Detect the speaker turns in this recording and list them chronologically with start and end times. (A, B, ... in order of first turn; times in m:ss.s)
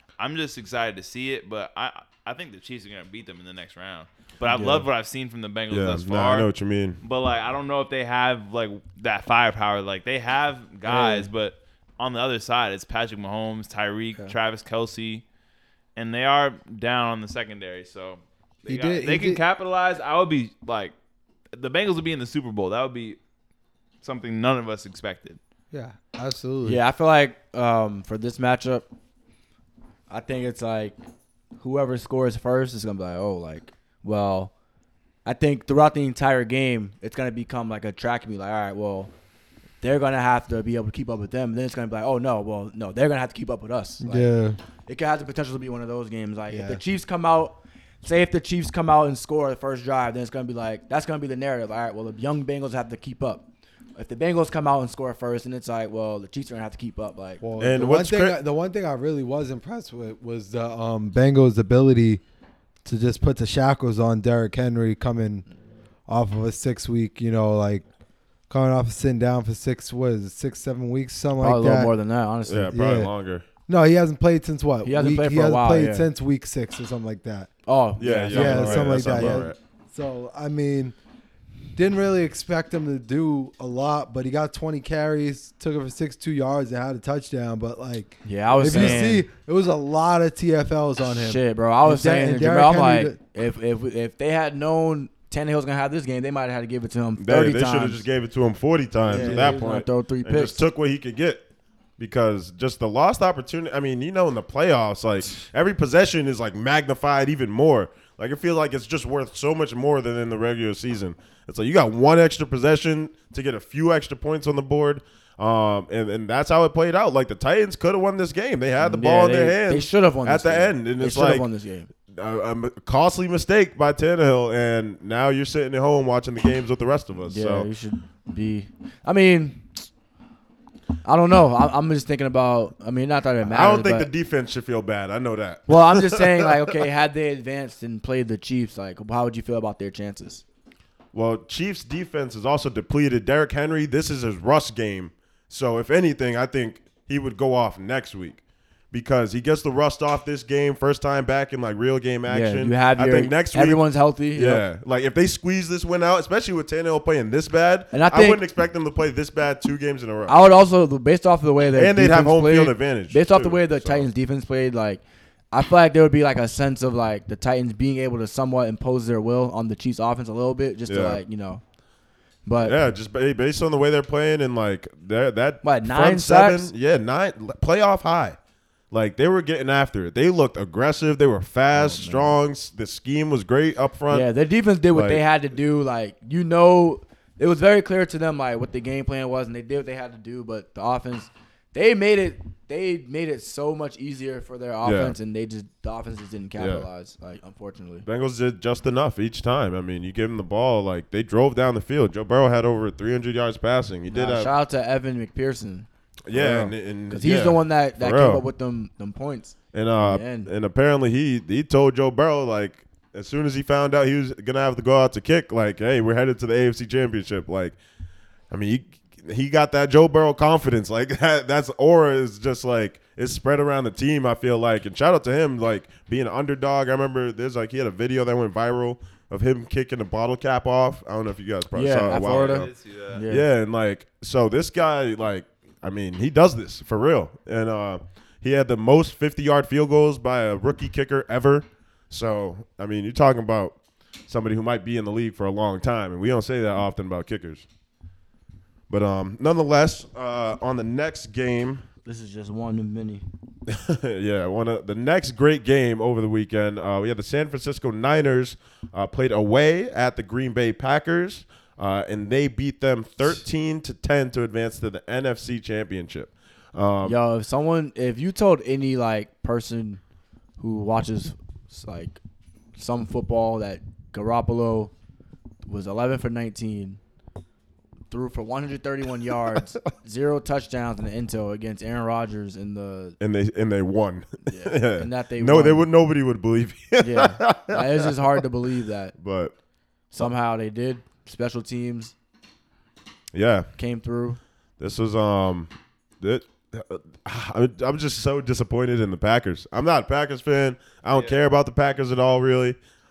0:00.2-0:06.5 A
0:04.5-0:04.8 B
0:05.7-0:07.0 C
0:07.0-0:15.2 A
0:10.9-0:11.2 B
0:16.0-0:20.9 A
0:18.6-0:19.4 D
0:21.5-0:23.2 A
0:24.0-0:25.4 A
0:25.7-0:26.8 D
0:26.6-0:28.9 B
0:30.1-0:31.0 B
0:31.6-0:34.5 B
0:35.2-0:39.1 B
0:39.8-0:44.3 B
0:44.0-0:44.6 D
0:44.9-0:57.4 B
0:46.5-0:46.8 D
0:57.4-1:02.2 D
0:57.6-0:58.4 C
1:02.8-1:05.4 D
1:06.1-1:07.8 D
1:08.5-1:11.9 D
1:11.4-1:12.7 B
1:12.5-1:13.4 C
1:12.7-1:13.1 D
1:13.7-1:17.5 D
1:14.8-1:16.1 B
1:17.7-1:19.4 B
1:18.0-1:19.6 C
1:18.3-1:20.9 D
1:21.7-1:33.2 D
1:28.2-1:29.3 B
1:31.1-1:38.0 B
1:37.2-1:41.4 C
1:39.0-1:40.6 B
1:39.1-1:39.6 D
1:42.0-2:01.5 C
1:58.8-2:01.9 B
2:02.1-2:07.7 C
2:07.2-2:09.8 B
2:11.0-2:14.1 B
2:13.4-2:16.8 C
2:15.7-2:20.4 B
2:21.1-2:40.4 C
2:32.3-2:34.6 B
2:37.9-2:38.4 B
2:40.3-2:51.6 B
2:41.7-2:44.1 C
2:50.9-2:51.2 C
2:52.4-2:52.8 B
2:52.6-2:58.4 C
2:55.6-2:56.7 B
2:58.9-3:04.3 C
3:01.7-3:02.4 B
3:04.1-3:18.0 B
3:04.9-3:05.2 C
3:14.8-3:15.2 C
3:16.6-3:16.9 C
3:18.0-3:24.5 C
3:24.1-3:30.5 B
3:26.3-3:28.4 C
3:29.7-3:37.8 C
3:38.5-3:52.7 C
3:51.7-3:53.5 B
3:52.2-3:53.2 A
3:53.3-4:03.8 C
4:04.3-4:07.6 C
4:08.9-4:11.8 C
4:12.0-4:13.2 B
4:13.7-4:27.2 C
4:27.0-4:30.0 B
4:30.6-4:32.2 B
4:32.8-4:34.9 B
4:35.6-4:37.0 B
4:38.1-4:43.2 B
4:43.2-4:48.4 C
4:44.4-4:45.9 B
4:47.0-4:49.1 B
4:49.2-4:49.5 C
4:50.1-4:52.1 B
4:53.3-4:53.7 C
4:53.8-4:54.4 B
4:54.8-5:02.8 C
5:01.1-5:01.4 A